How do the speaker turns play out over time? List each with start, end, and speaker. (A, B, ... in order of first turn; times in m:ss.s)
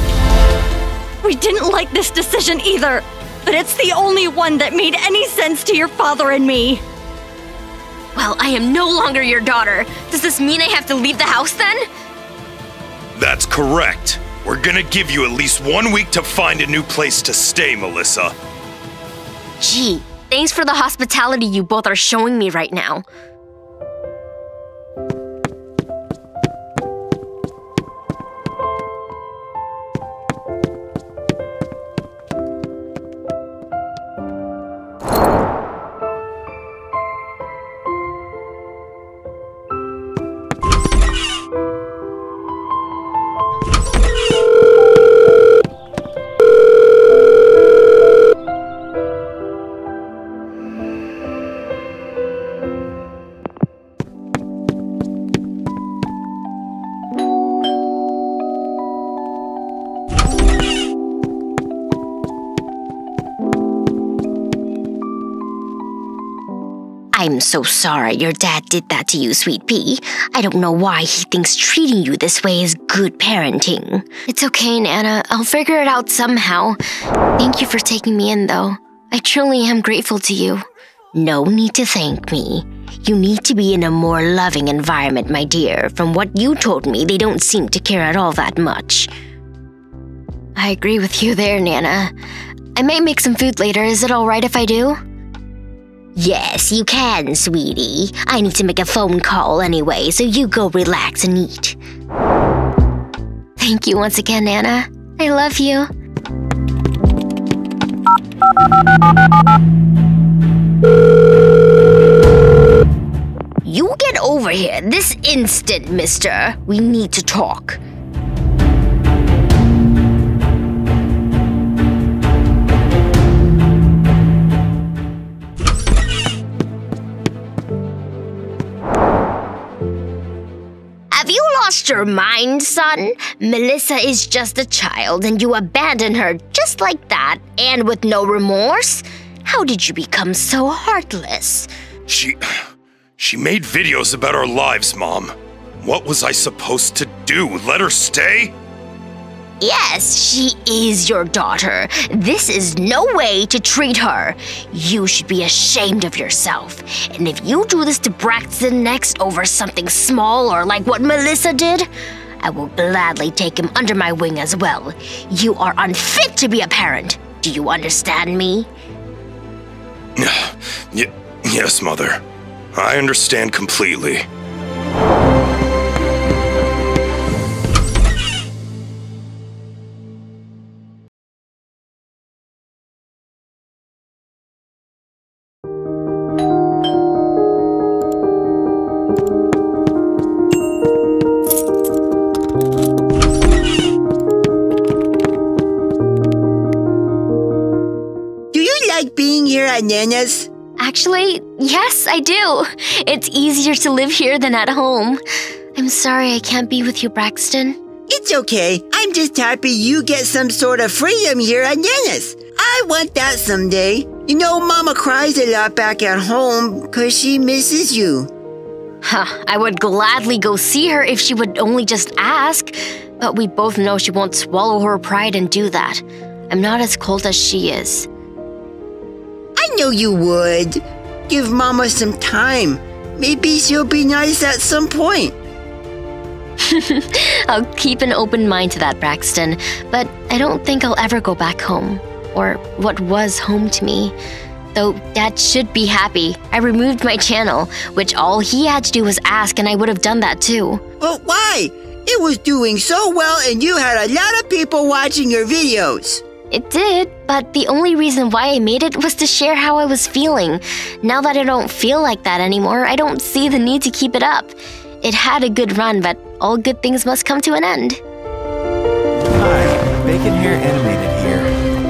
0:01.2-0:06.8 A
0:08.1-0:11.8 B
0:13.1-0:18.3 C
0:19.6-0:23.0 B
1:07.1-1:16.8 B
1:17.4-1:29.1 B
1:30.6-1:32.1 B
1:32.8-1:35.0 B
1:36.2-1:41.8 B
1:43.6-1:45.9 B
1:53.6-1:57.8 B
2:11.1-2:21.7 B
2:22.1-2:28.5 C
2:29.6-2:41.9 B
2:42.4-2:48.7 B
2:50.2-2:52.2 C
2:52.7-2:54.2 C
3:18.5-3:20.5 D
3:20.8-3:25.2 B
3:25.7-3:27.8 B
3:28.1-3:38.3 D
3:39.0-3:48.1 B
3:49.6-3:55.4 D
3:56.6-4:04.1 B
4:04.7-4:10.8 B
4:11.0-4:16.2 D
4:16.5-4:28.0 B
4:29.2-4:31.5 E